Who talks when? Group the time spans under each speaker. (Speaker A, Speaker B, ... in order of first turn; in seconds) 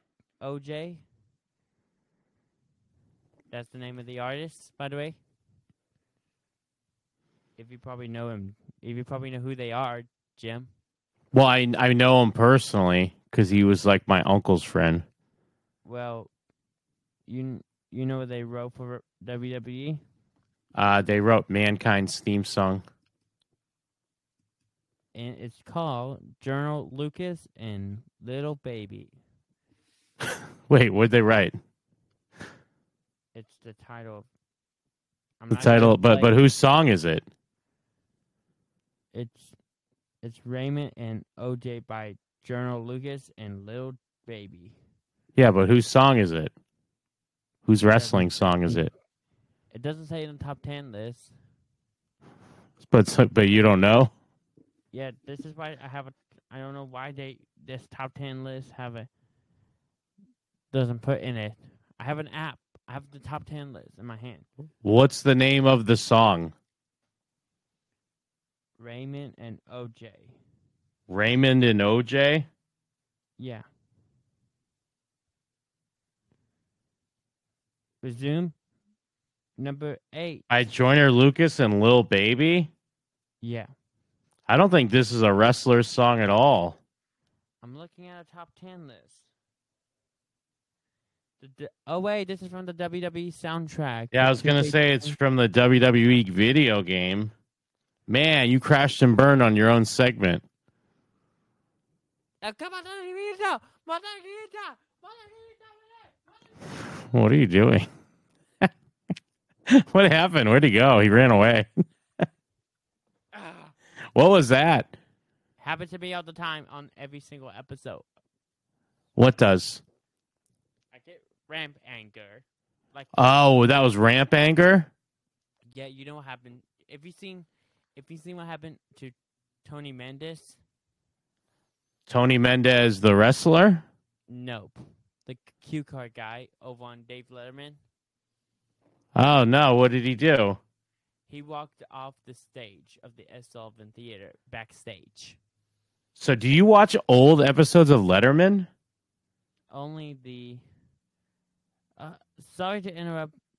Speaker A: 0.4-1.0, 3.5-5.2, 7.6-10.7, 15.8-16.3, 17.3-20.0, 25.1-29.1, 33.4-34.3, 35.4-36.3, 39.1-39.5, 40.2-44.8, 47.9-48.8, 49.7-51.3, 54.9-59.1, 60.7-64.5, 68.8-70.4, 73.4-73.7, 78.0-78.5, 79.6-80.5, 83.4-83.7, 87.6-89.3, 91.4-95.2, 102.4-106.7, 113.3-113.7, 115.6-118.0, 120.9-123.1, 125.7-130.6, 134.3-137.8, 141.3-145.4, 149.7-150.6, 152.0-153.3
Speaker B: 11.3-15.1, 20.8-22.8, 30.2-31.6, 35.5-37.2, 45.4-46.5, 47.6-48.9, 52.8-54.1, 64.8-66.5, 71.1-72.5, 80.5-82.7, 84.5-86.8, 94.1-97.3, 98.1-100.4, 106.9-107.9, 109.7-111.7, 114.2-115.0, 119.2-119.8, 123.1-124.9, 132.1-133.8, 139.2-140.6, 146.2-148.7